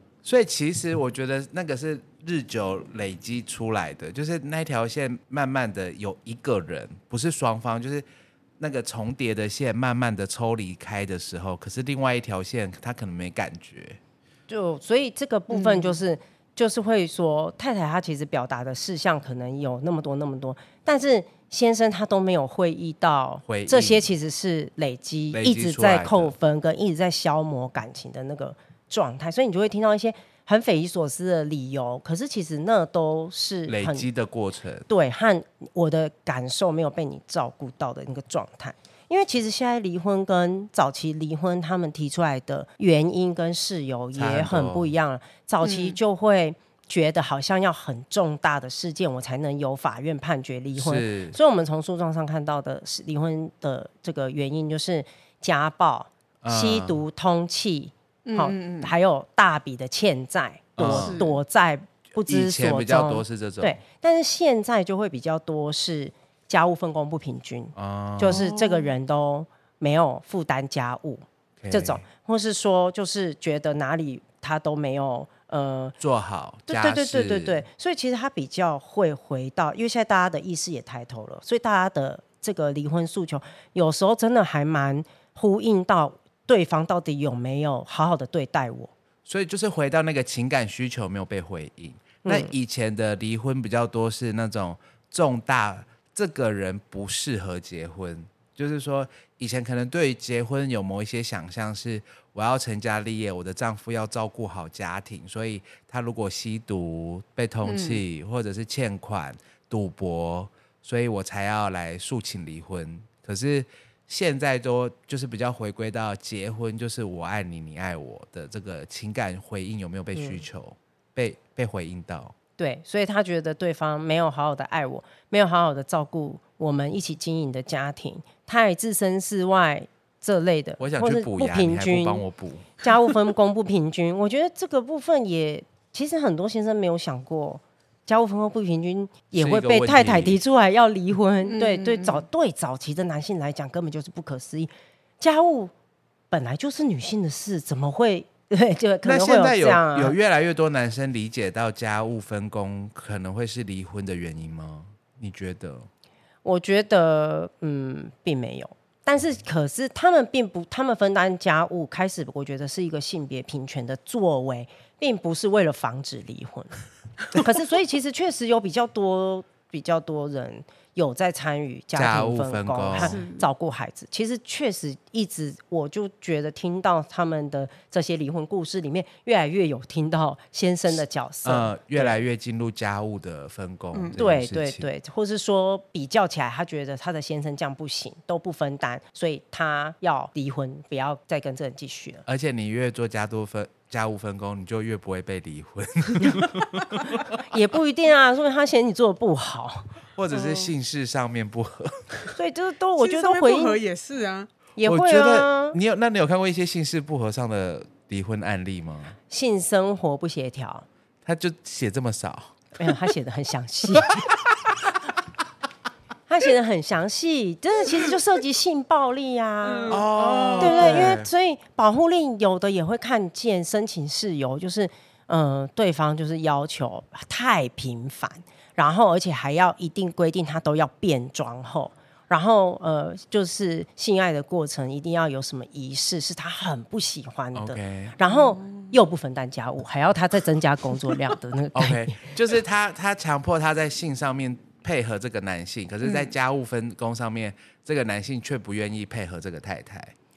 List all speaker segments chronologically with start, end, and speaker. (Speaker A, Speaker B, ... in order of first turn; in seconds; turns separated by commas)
Speaker A: 0.2-8.0, Speaker A: 8.6-14.0, Speaker B: 14.5-34.1, Speaker C: 15.5-16.0, Speaker A: 23.5-24.1, Speaker A: 25.3-26.3, Speaker A: 33.7-34.9, Speaker B: 34.9-76.0, Speaker A: 44.1-44.9, Speaker C: 45.6-46.0, Speaker A: 50.7-51.4, Speaker A: 56.4-57.0, Speaker C: 58.2-58.9, Speaker A: 60.8-61.2, Speaker C: 60.8-61.3, Speaker A: 62.2-63.8, Speaker A: 67.8-68.4, Speaker C: 68.2-68.9, Speaker A: 71.6-72.0, Speaker A: 76.0-77.6, Speaker B: 76.7-88.9, Speaker A: 89.2-122.3, Speaker B: 92.2-92.5, Speaker C: 107.6-108.0, Speaker B: 120.1-120.4, Speaker B: 122.6-132.2, Speaker A: 130.8-132.7, Speaker B: 132.8-145.7, Speaker A: 139.3-140.4, Speaker C: 141.4-142.2, Speaker B: 146.3-150.2, Speaker A: 149.0-155.9, Speaker B: 156.4-166.8, Speaker B: 167.3-182.2, Speaker A: 171.9-173.1, Speaker C: 173.0-173.4, Speaker A: 181.4-184.9, Speaker B: 184.2-192.2, Speaker A: 192.2-197.4, Speaker B: 197.4-199.9, Speaker A: 200.2-202.1, Speaker C: 200.3-200.7, Speaker B: 202.4-203.8, Speaker C: 203.0-204.5, Speaker B: 204.8-205.8, Speaker A: 204.8-209.2, Speaker B: 209.3-210.8, Speaker A: 211.2-212.6, Speaker B: 212.8-214.2, Speaker B: 216.3-220.0, Speaker C: 219.6-221.2, Speaker A: 219.9-221.3, Speaker B: 220.6-242.3, Speaker A: 237.5-238.2, Speaker C: 238.3-238.9, Speaker A: 241.7-250.1